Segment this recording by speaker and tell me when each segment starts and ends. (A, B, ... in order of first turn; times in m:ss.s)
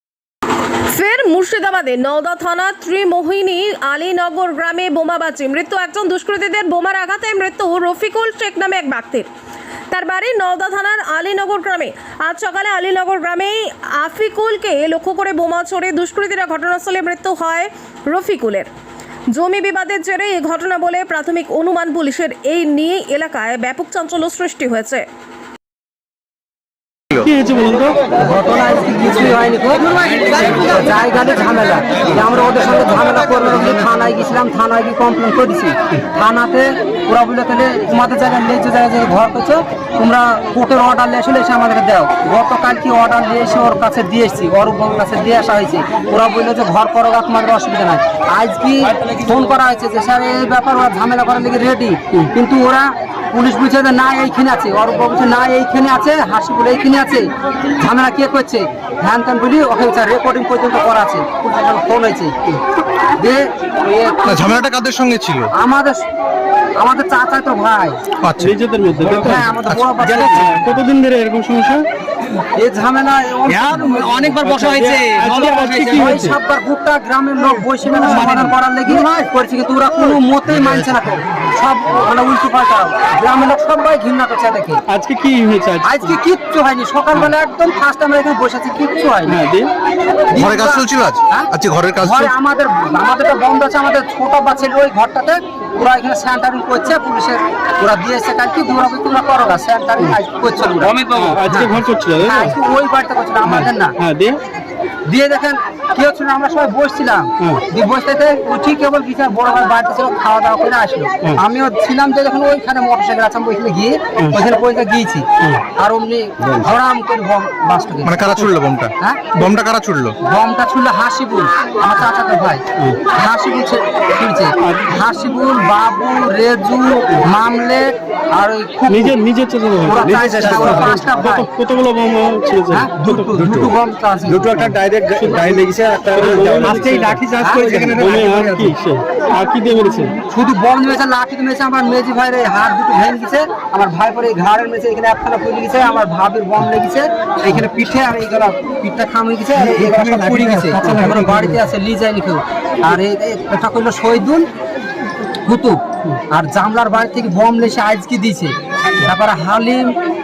0:00.9-0:09.3 A
0:09.9-0:18.7 A
0:19.3-0:25.0 A
0:27.2-0:28.0 B
0:28.2-1:02.4 C
1:03.2-1:04.6 C
1:04.3-1:05.5 D
1:05.5-1:06.0 C
1:06.8-1:08.0 C
1:08.2-1:08.5 D
1:08.4-1:09.5 B
1:09.1-1:10.5 C
1:09.6-1:09.9 D
1:10.0-1:10.6 E
1:10.3-1:11.8 B
1:12.6-1:14.6 C
1:13.5-1:16.3 E
1:14.5-1:16.4 B
1:15.9-1:24.8 C
1:17.7-1:19.1 E
1:18.0-1:18.3 B
1:24.9-1:26.1 B
1:25.8-1:29.4 C
1:29.3-1:29.7 B
1:30.3-1:31.5 C
1:30.4-1:32.3 D
1:32.0-1:43.9 C
1:40.8-1:41.4 E
1:41.1-1:42.5 B
1:43.4-1:44.4 B
1:45.0-1:58.3 C
1:58.0-2:00.1 D
1:59.0-1:59.4 C
2:00.2-2:09.1 C
2:04.6-2:04.9 B
2:08.9-2:13.3 B
2:09.8-2:11.5 C
2:10.0-2:11.4 E
2:12.7-2:14.8 C
2:13.3-2:13.7 E
2:14.3-2:18.7 E
2:15.1-2:17.2 B
2:17.3-2:17.8 C
2:17.9-2:20.1 B
2:20.3-2:34.5 C
2:29.6-2:31.5 E
2:35.4-2:35.8 C
2:36.3-2:39.9 C